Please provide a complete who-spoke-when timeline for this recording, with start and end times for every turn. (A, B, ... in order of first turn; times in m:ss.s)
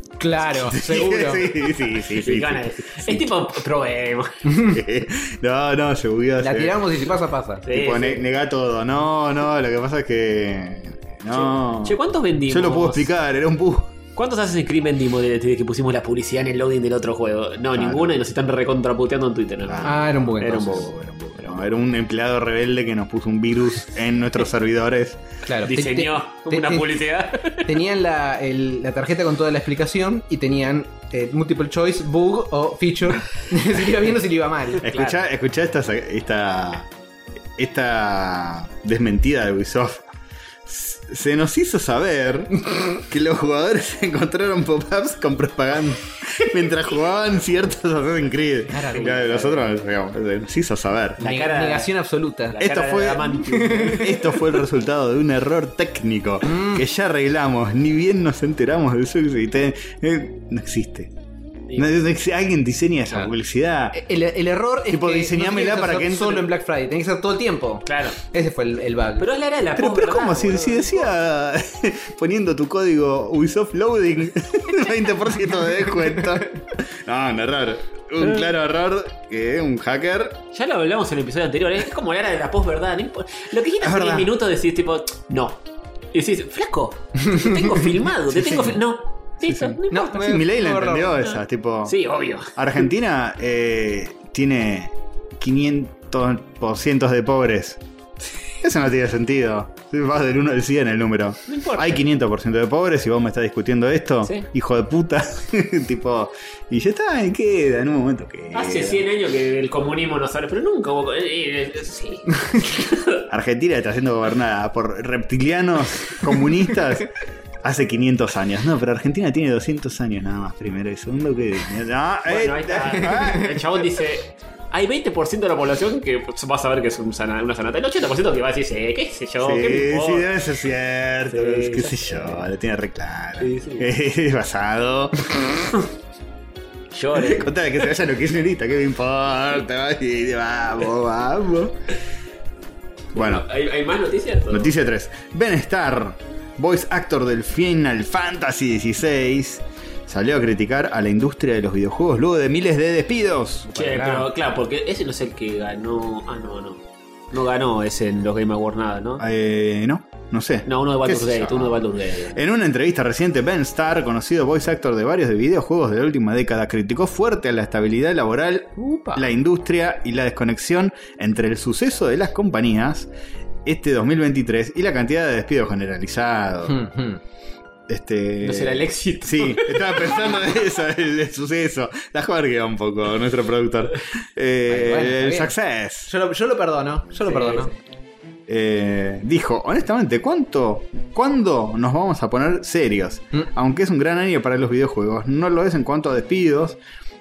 0:00.2-0:01.5 A
0:00.4-0:03.3 B
0:01.9-0:04.5 C
0:04.5-0:04.7 A
0:04.6-0:06.9 B
0:06.4-0:07.7 A
0:07.6-0:08.2 C
0:07.7-0:13.9 B
0:11.3-0:13.1 C
0:14.2-0:20.9 C
0:17.7-0:18.1 B
0:19.6-0:25.2 B
0:19.8-0:20.8 A
0:25.4-0:27.0 A
0:25.6-0:27.7 C
0:27.6-0:35.0 A
0:34.8-0:36.9 B
0:34.9-0:35.2 C
0:37.6-0:40.1 B
0:40.6-0:51.2 B
0:48.7-0:49.4 A
0:48.9-0:49.8 C
0:51.2-0:51.9 C
0:51.2-0:52.6 A
0:52.5-0:54.3 C
0:52.6-1:01.1 B
0:53.4-0:54.2 A
0:56.4-0:56.8 A
1:01.7-1:01.9 C
1:01.8-1:04.0 B
1:03.9-1:09.3 A
1:04.9-1:06.5 B
1:07.8-1:08.2 C
1:09.2-1:11.1 C
1:09.8-1:20.4 B
1:18.2-1:18.5 C
1:20.5-1:25.6 C
1:23.8-1:24.3 B
1:26.1-1:30.2 C
1:28.3-1:28.8 B
1:29.4-1:32.0 B
1:29.9-1:31.2 A
1:31.8-1:32.5 C
1:32.5-1:37.8 B
1:38.6-1:49.0 B
1:41.5-1:42.0 C
1:48.5-1:53.2 C
1:53.3-2:03.7 B
2:02.2-2:10.4 C
2:09.4-2:15.5 B
2:11.3-2:12.4 C
2:13.4-2:13.9 C
2:16.9-2:17.7 C
2:17.1-2:21.8 B
2:23.1-2:24.7 C
2:23.1-2:23.4 B
2:24.5-2:34.2 B
2:33.7-2:36.8 C
2:37.3-2:39.2 C
2:39.2-2:41.8 B
2:40.6-2:42.4 C
2:42.3-2:53.1 B
2:48.8-2:49.2 A
2:53.6-2:56.8 B
2:56.6-2:57.2 A
2:57.9-3:06.1 B
2:58.4-3:00.4 C
3:04.7-3:05.5 A
3:06.1-3:07.7 A
3:07.2-3:07.7 C
3:08.5-3:16.8 B